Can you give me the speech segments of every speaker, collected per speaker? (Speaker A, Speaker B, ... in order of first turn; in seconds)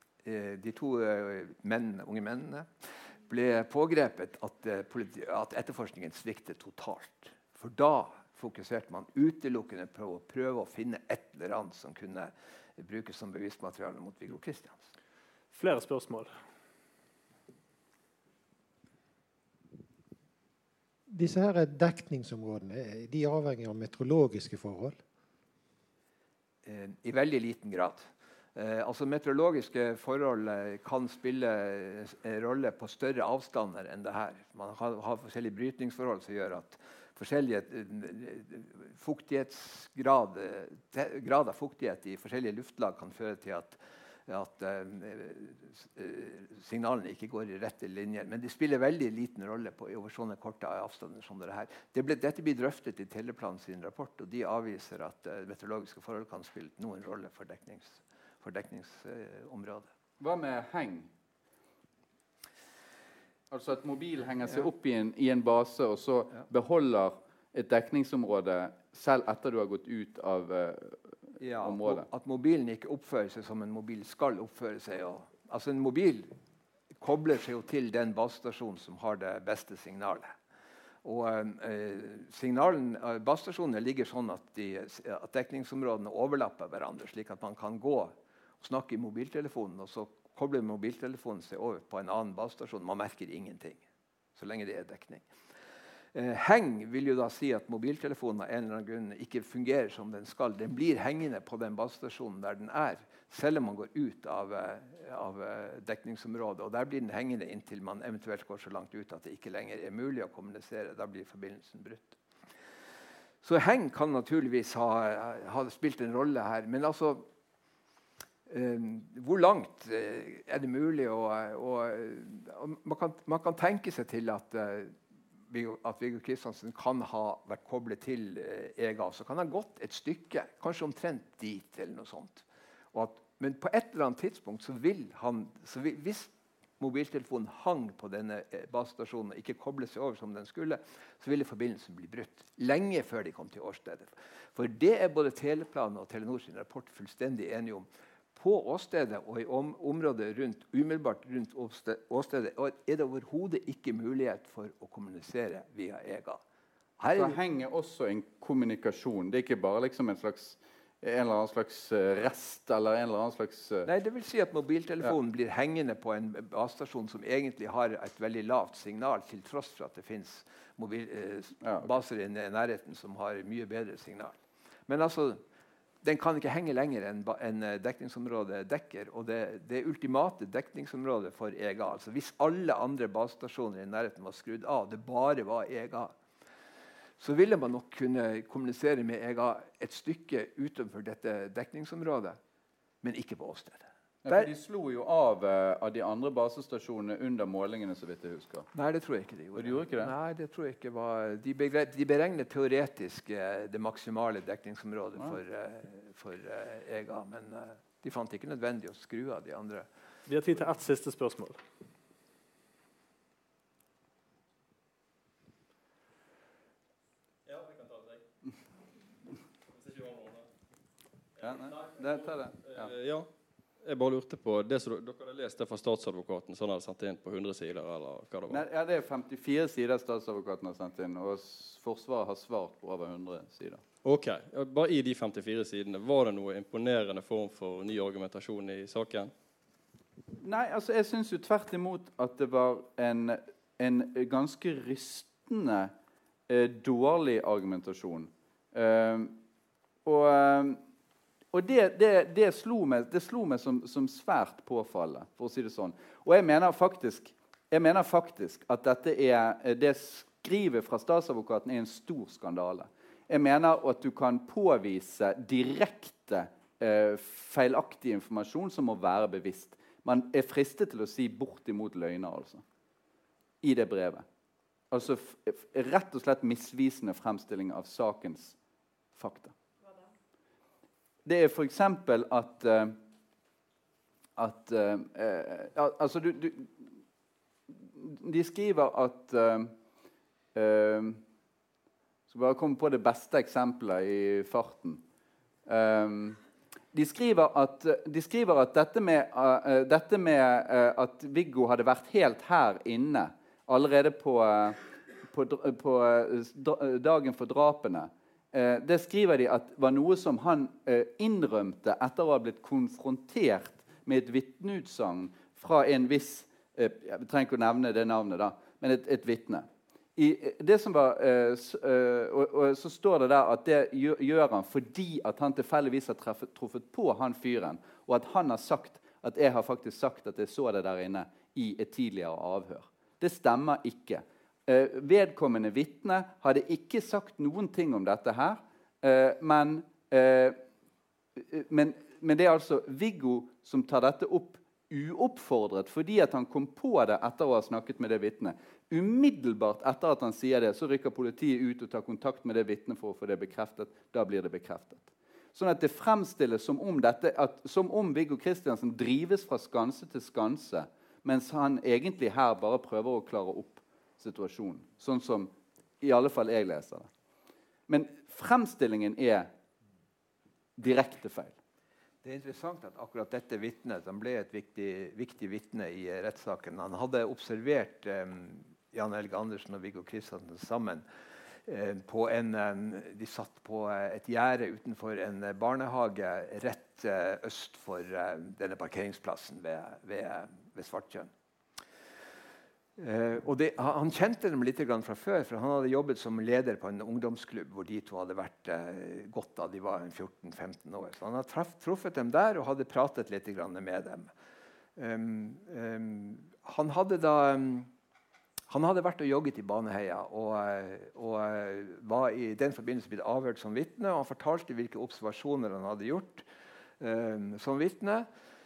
Speaker A: 0.2-2.7, 3.3-14.9, 26.6-59.9, 71.4-76.3, 77.0-80.3, 81.0-95.2, 96.1-112.2, 113.4-117.3, 118.5-156.4, 157.0-157.4, 163.8-175.4, 176.0-186.1, 187.2-192.4, 193.0-194.5, 198.7-209.9, 372.2-381.0, 381.6-391.3, 393.0-404.3, 404.9-407.9, 408.7-416.4, 417.0-418.3
Speaker B: 15.5-16.3, 210.3-211.6
Speaker C: 21.1-25.0
Speaker D: 60.2-61.1, 63.5-72.1, 157.1-163.9, 171.6-171.9, 194.2-198.7, 199.5-200.1, 221.4-222.9, 228.5-233.8, 240.4-245.9, 246.5-249.4, 250.0-250.8, 251.5-272.6, 273.6-274.2, 274.9-278.6, 279.1-279.5, 281.2-283.0, 284.4-286.9, 287.7-289.7, 290.5-291.2, 292.3-295.0, 295.6-296.4, 296.9-340.6, 341.4-367.1, 367.9-369.5, 370.8-371.6
Speaker E: 217.4-218.2, 219.7-220.4, 221.5-222.1, 222.7-223.3, 223.8-228.6, 234.0-239.3